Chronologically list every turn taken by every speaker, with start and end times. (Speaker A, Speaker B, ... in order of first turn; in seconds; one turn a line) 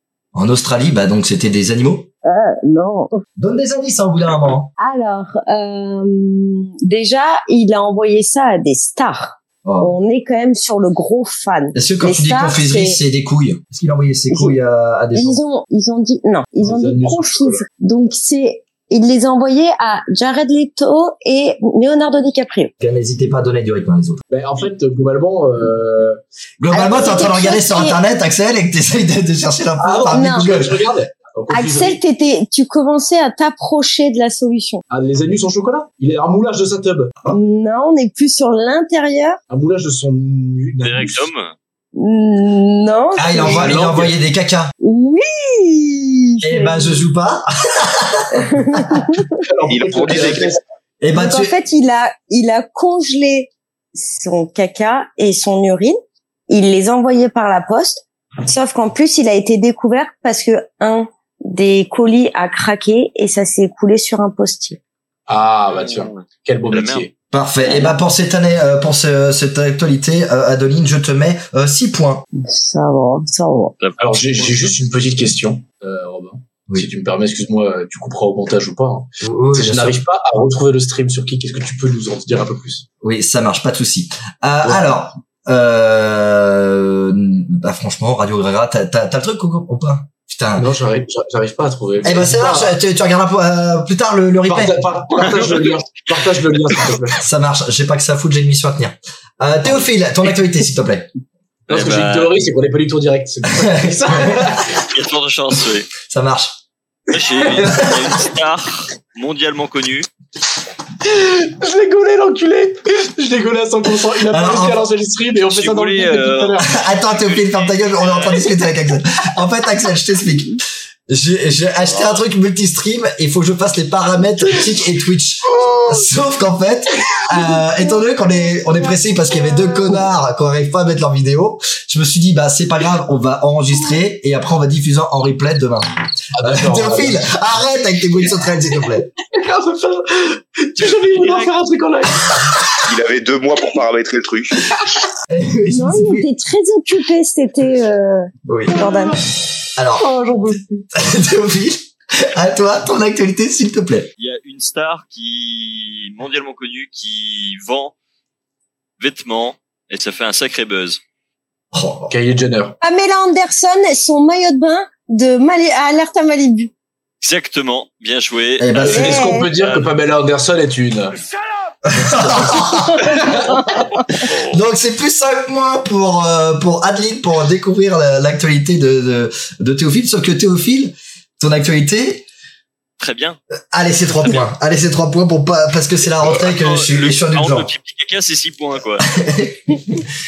Speaker A: 0.3-2.1
Speaker B: 2.2-3.2
Speaker A: 3.4-4.7
Speaker B: 4.8-13.0
Speaker A: 9.6-9.9
Speaker A: 11.7-15.4
Speaker B: 14.3-14.6
Speaker B: 15.1-22.7
Speaker C: 16.6-17.6
Speaker A: 22.8-24.2
Speaker C: 24.3-26.2
Speaker A: 26.6-30.7
Speaker B: 26.7-28.0
Speaker C: 29.8-32.0
Speaker B: 30.1-30.5
Speaker B: 31.5-34.8
Speaker C: 34.9-37.1
Speaker B: 37.3-39.4
Speaker C: 39.5-41.3
Speaker D: 40.8-41.5
Speaker B: 42.0-43.7
Speaker A: 43.2-44.7
Speaker C: 43.4-44.1
Speaker B: 44.8-47.0
Speaker A: 46.4-48.5
Speaker B: 48.3-49.3
Speaker C: 49.4-50.6
Speaker E: 49.7-50.5
Speaker A: 51.0-51.5
Speaker B: 51.1-56.0
Speaker B: 56.5-64.8
Speaker C: 65.3-67.1
Speaker D: 65.7-67.0
Speaker A: 67.3-72.2
Speaker B: 67.6-68.0
Speaker B: 72.3-73.7
Speaker D: 73.8-74.8
Speaker C: 74.0-82.8
Speaker A: 79.2-80.0
Speaker A: 83.0-90.7
Speaker C: 84.6-85.0
Speaker C: 90.5-92.7
Speaker A: 92.0-94.9
Speaker C: 94.5-97.2
Speaker A: 97.2-101.1
Speaker C: 101.7-104.7
Speaker D: 101.7-102.4
Speaker A: 103.5-104.7
Speaker D: 104.7-105.9
Speaker A: 106.1-106.6
Speaker D: 107.1-110.1
Speaker A: 107.4-108.3
Speaker C: 111.0-116.8
Speaker A: 114.3-114.8
Speaker D: 115.5-118.5
Speaker A: 116.7-120.5
Speaker A: 121.1-135.8
Speaker C: 136.4-137.3
Speaker A: 136.4-139.1
Speaker C: 139.2-142.5
Speaker D: 140.8-141.5
Speaker E: 142.8-144.6
Speaker A: 145.3-146.3
Speaker B: 145.7-149.2
Speaker A: 148.4-148.8
Speaker C: 148.8-149.2
Speaker A: 149.8-154.1
Speaker B: 150.0-150.6
Speaker D: 154.2-157.9
Speaker D: 159.0-161.0
Speaker A: 161.7-162.1
Speaker C: 162.1-162.7
Speaker B: 162.8-166.7
Speaker D: 167.2-169.9
Speaker A: 168.6-169.1
Speaker C: 168.8-171.2
Speaker B: 168.9-169.5
Speaker A: 171.8-173.6
Speaker B: 173.1-173.3
Speaker D: 174.2-174.6
Speaker A: 174.2-182.2
Speaker D: 183.0-183.4
Speaker A: 183.7-187.7
Speaker D: 186.2-189.1
Speaker A: 189.0-190.0